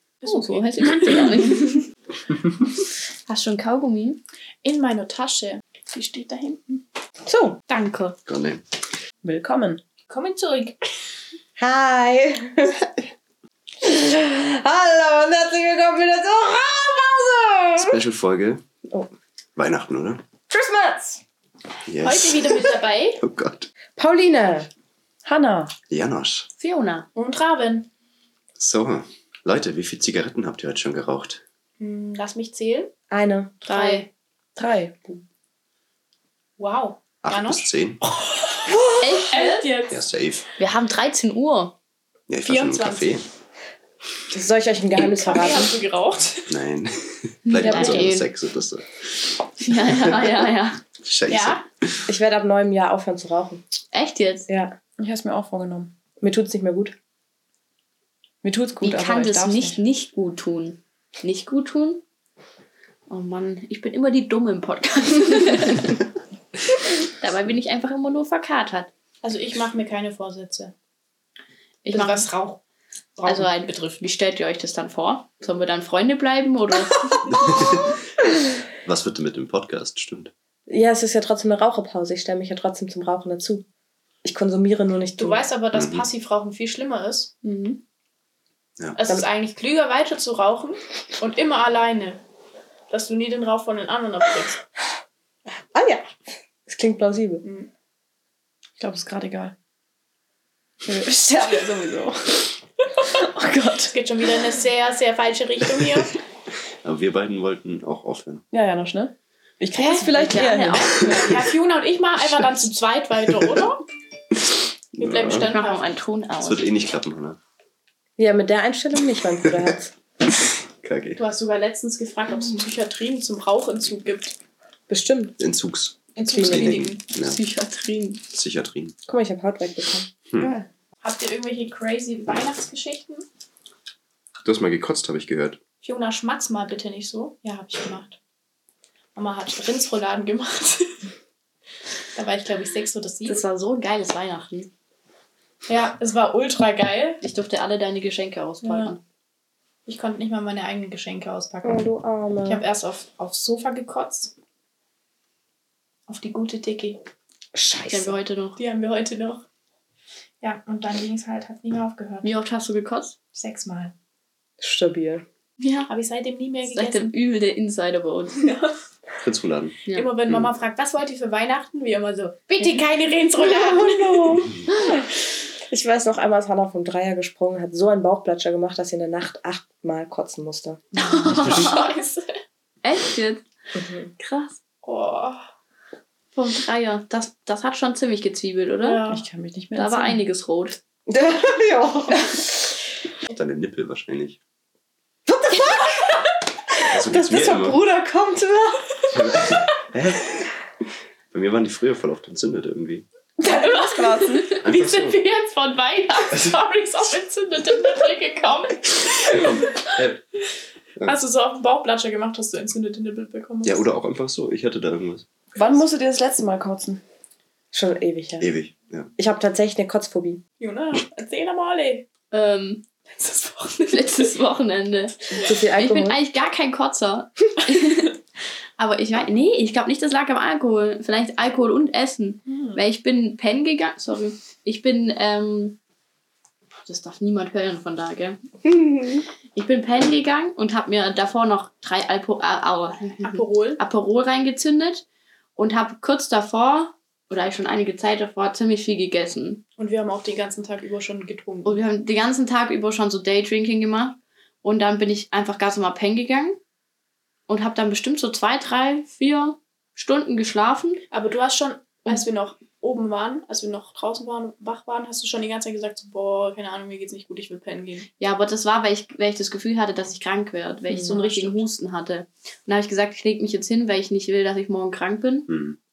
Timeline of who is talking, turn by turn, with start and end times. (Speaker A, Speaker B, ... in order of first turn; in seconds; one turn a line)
Speaker A: 0.2-1.8
Speaker B: 0.2-1.9
Speaker B: 3.3-4.2
Speaker A: 4.6-6.8
Speaker C: 7.3-7.6
Speaker A: 7.7-8.2
Speaker D: 8.3-8.6
Speaker E: 9.2-9.8
Speaker A: 10.1-10.8
Speaker C: 11.6-12.9
Speaker C: 13.8-18.0
Speaker D: 17.8-18.6
Speaker D: 19.6-20.2
Speaker C: 20.5-21.2
Speaker D: 21.9-23.7
Speaker A: 22.0-23.2
Speaker C: 24.0-24.7
Speaker E: 25.2-25.7
Speaker D: 25.9-26.5
Speaker B: 26.6-27.1
Speaker A: 27.1-27.9
Speaker D: 28.6-31.4
Speaker A: 31.8-32.9
Speaker C: 33.1-33.7
Speaker B: 33.7-34.1
Speaker A: 33.7-34.1
Speaker E: 34.6-35.1
Speaker A: 36.6-40.0
Speaker D: 37.2-38.0
Speaker B: 39.0-39.7
Speaker D: 39.9-40.5
Speaker B: 40.6-41.8
Speaker D: 42.3-43.2
Speaker A: 42.5-43.2
Speaker C: 44.3-45.8
Speaker A: 45.0-46.5
Speaker D: 46.5-50.4
Speaker B: 47.5-48.3
Speaker A: 47.7-47.9
Speaker B: 49.6-50.8
Speaker D: 51.0-52.0
Speaker A: 51.3-51.6
Speaker C: 52.1-53.6
Speaker B: 53.9-54.5
Speaker C: 54.5-54.8
Speaker E: 55.0-55.9
Speaker C: 56.2-57.0
Speaker E: 58.4-59.8
Speaker B: 58.8-62.0
Speaker B: 63.1-66.0
Speaker B: 67.1-68.9
Speaker A: 69.2-70.7
Speaker B: 71.8-72.3
Speaker A: 71.9-72.6
Speaker A: 73.2-73.7
Speaker B: 73.3-77.3
Speaker D: 77.2-78.0
Speaker D: 78.8-80.3
Speaker C: 80.7-83.7
Speaker C: 84.2-85.5
Speaker A: 85.2-87.7
Speaker D: 85.7-86.1
Speaker A: 89.0-92.2
Speaker A: 92.9-94.6
Speaker C: 95.7-96.1
Speaker C: 96.7-97.5
Speaker A: 97.4-97.7
Speaker E: 98.8-99.5
Speaker E: 100.8-102.5
Speaker E: 103.2-103.9
Speaker A: 103.9-106.2
Speaker D: 106.8-108.5
Speaker E: 108.5-111.0
Speaker A: 109.8-113.8
Speaker B: 109.8-111.3
Speaker D: 115.0-115.5
Speaker A: 115.0-115.8
Speaker B: 115.3-116.6
Speaker D: 116.4-117.4
Speaker C: 118.2-119.9
Speaker D: 119.3-119.7
Speaker D: 120.4-121.2
Speaker A: 121.2-124.4
Speaker C: 124.9-125.4
Speaker D: 125.4-127.4
Speaker A: 126.2-127.0
Speaker C: 126.2-126.9
Speaker B: 127.2-128.2
Speaker D: 128.3-129.0
Speaker C: 129.1-130.1
Speaker E: 130.4-130.7
Speaker A: 131.0-133.3
Speaker D: 134.4-135.6
Speaker A: 135.8-138.2
Speaker A: 139.2-141.0
Speaker A: 142.2-143.4
Speaker B: 143.2-144.7
Speaker A: 145.7-147.2
Speaker B: 147.2-149.0
Speaker A: 148.6-148.9
Speaker A: 149.9-151.9
Speaker C: 151.6-152.6
Speaker A: 152.4-154.3
Speaker A: 156.1-157.0
Speaker C: 157.5-158.2
Speaker B: 157.9-158.6
Speaker A: 158.6-159.4
Speaker A: 160.4-162.3
Speaker B: 162.2-163.2
Speaker A: 163.3-163.9
Speaker C: 164.6-165.2
Speaker B: 165.6-165.9
Speaker A: 165.9-167.1
Speaker B: 166.7-168.4
Speaker A: 168.4-168.7
Speaker D: 169.2-170.5
Speaker B: 169.9-170.1
Speaker A: 169.9-174.6
Speaker C: 173.4-175.0
Speaker C: 175.7-180.8
Speaker B: 181.0-181.9
Speaker A: 181.3-182.3
Speaker B: 182.8-183.4
Speaker C: 183.8-184.1
Speaker B: 184.2-184.6
Speaker A: 184.8-185.4
Speaker B: 186.3-189.1
Speaker A: 188.8-189.2
Speaker E: 189.1-190.2
Speaker B: 189.7-190.8
Speaker C: 191.1-192.7
Speaker D: 193.3-194.4
Speaker C: 195.3-196.2
Speaker C: 196.8-198.9
Speaker D: 196.9-197.8
Speaker D: 199.1-200.6
Speaker D: 201.3-203.1
Speaker E: 203.4-204.6
Speaker A: 203.5-209.9
Speaker D: 204.6-205.2
Speaker D: 209.2-210.2
Speaker A: 211.1-213.9
Speaker D: 213.6-215.3
Speaker E: 215.6-217.0
Speaker C: 217.7-218.5
Speaker D: 218.4-219.1
Speaker C: 219.2-220.4
Speaker A: 220.6-222.1
Speaker B: 222.3-222.9
Speaker A: 223.2-223.9
Speaker B: 223.9-228.1
Speaker C: 225.4-226.2
Speaker B: 228.8-235.8
Speaker B: 236.9-238.4
Speaker C: 238.7-239.2
Speaker B: 239.5-245.1
Speaker A: 243.2-243.8
Speaker B: 245.6-249.6
Speaker A: 249.8-251.8
Speaker B: 251.7-256.6
Speaker B: 257.5-261.0
Speaker A: 261.1-268.1
Speaker B: 268.2-275.5
Speaker C: 270.9-271.2
Speaker A: 271.1-271.7
Speaker D: 275.5-275.8